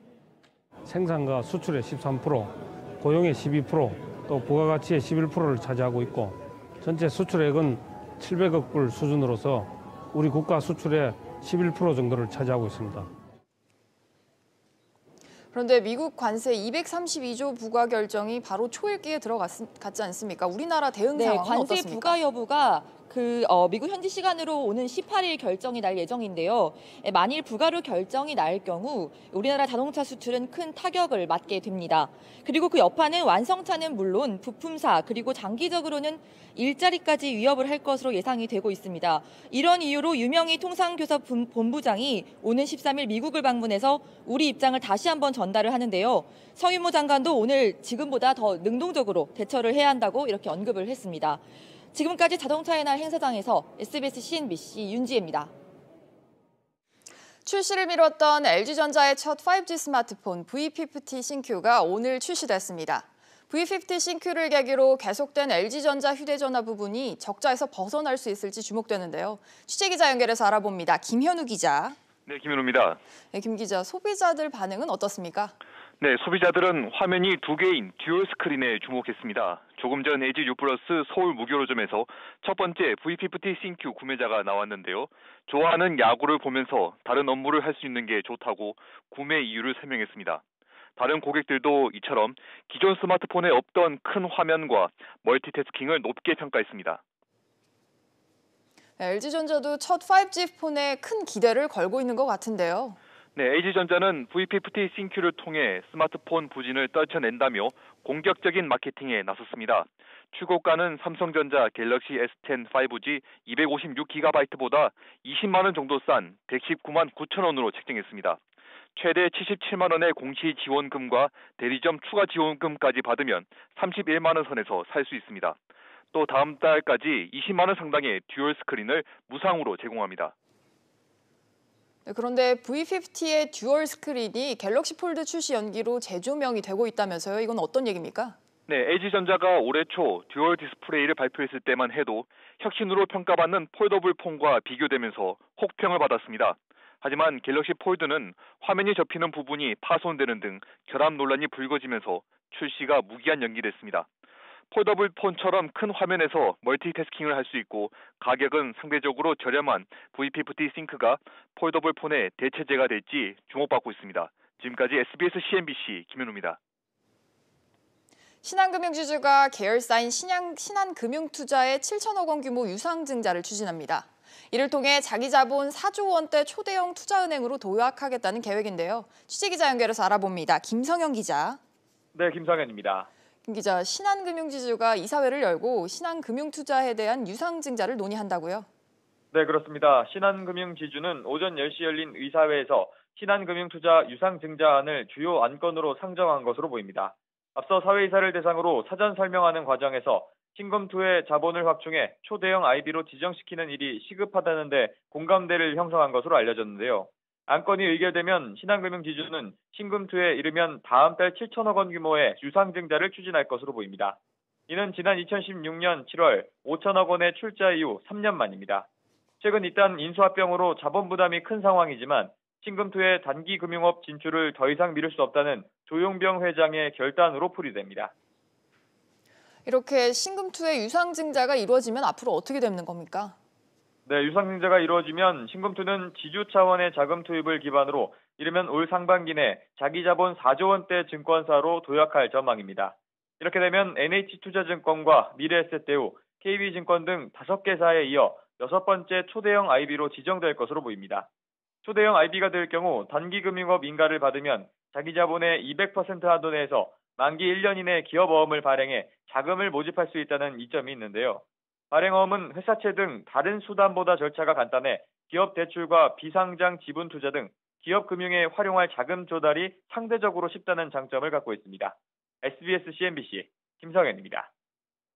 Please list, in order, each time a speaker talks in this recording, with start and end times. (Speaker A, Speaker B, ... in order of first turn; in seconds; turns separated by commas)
Speaker A: 0.9-13.1, Speaker B: 15.5-22.2, Speaker C: 21.1-51.4, Speaker C: 51.9-55.5, Speaker B: 57.5-72.0, Speaker D: 72.3-73.0, Speaker B: 73.3-75.5, Speaker D: 76.0-90.4, Speaker D: 91.0-97.0, Speaker B: 99.0-103.0, Speaker D: 103.4-118.4, Speaker D: 119.0-125.6, Speaker D: 126.1-130.3, Speaker B: 132.1-138.4, Speaker D: 138.7-154.1, Speaker D: 154.7-166.6, Speaker B: 168.4-181.6, Speaker E: 182.1-183.1, Speaker B: 183.5-188.7, Speaker E: 189.3-218.9, Speaker E: 219.4-228.1, Speaker B: 229.7-233.3, Speaker E: 234.1-251.3, Speaker E: 251.8-274.5